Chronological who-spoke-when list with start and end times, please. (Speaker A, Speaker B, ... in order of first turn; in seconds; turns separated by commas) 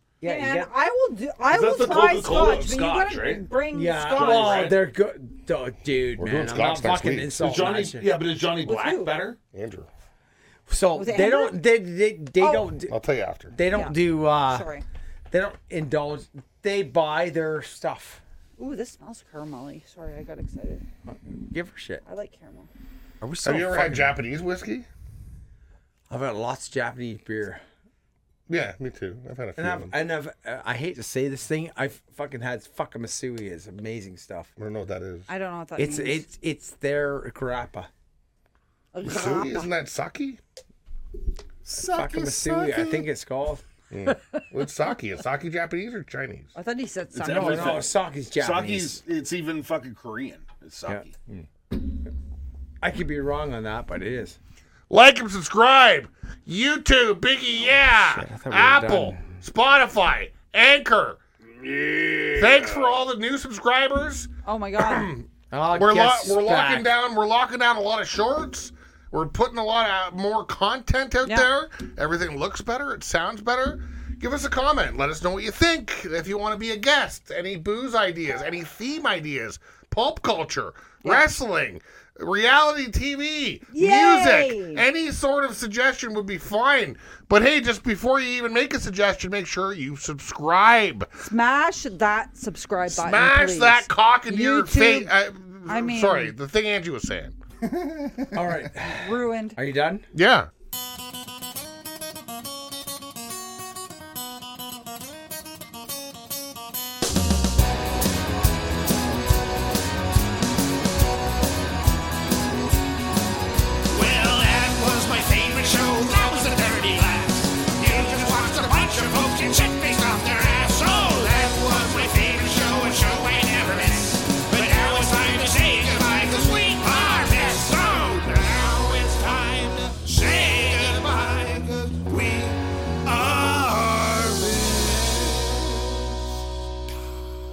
Speaker A: 0.2-0.7, Speaker B: 0.2-4.7, Speaker C: 1.5-3.5, Speaker A: 3.7-8.1, Speaker C: 4.2-4.8, Speaker D: 6.2-7.4, Speaker C: 7.4-9.4, Speaker B: 8.6-9.2, Speaker D: 9.5-9.9, Speaker A: 10.7-12.9, Speaker B: 10.9-11.6, Speaker B: 12.4-12.7, Speaker D: 12.9-13.5, Speaker A: 13.5-14.7, Speaker B: 13.7-14.8, Speaker A: 15.3-18.2, Speaker B: 18.6-20.8, Speaker A: 21.1-22.0, Speaker B: 22.0-22.7, Speaker A: 23.2-24.2, Speaker D: 23.4-24.9, Speaker A: 26.1-27.6, Speaker D: 28.5-29.9, Speaker A: 29.6-34.5, Speaker D: 34.6-35.3, Speaker B: 35.3-36.2, Speaker A: 35.8-37.9, Speaker B: 38.9-39.7, Speaker D: 39.0-40.4, Speaker A: 41.7-43.6, Speaker D: 41.7-43.0, Speaker D: 43.9-46.5, Speaker B: 44.1-44.4, Speaker B: 46.5-47.9, Speaker C: 47.1-51.1, Speaker A: 47.2-49.0, Speaker A: 52.8-54.4, Speaker D: 54.9-61.2, Speaker A: 57.9-59.3, Speaker C: 61.6-62.8, Speaker D: 62.3-91.1, Speaker B: 64.4-65.1, Speaker A: 65.5-66.9, Speaker B: 83.7-84.8, Speaker B: 91.2-95.1, Speaker D: 92.9-97.4, Speaker B: 95.7-96.3, Speaker C: 97.6-98.4, Speaker A: 98.3-100.0, Speaker B: 98.8-99.6, Speaker D: 100.1-100.5, Speaker E: 113.9-135.9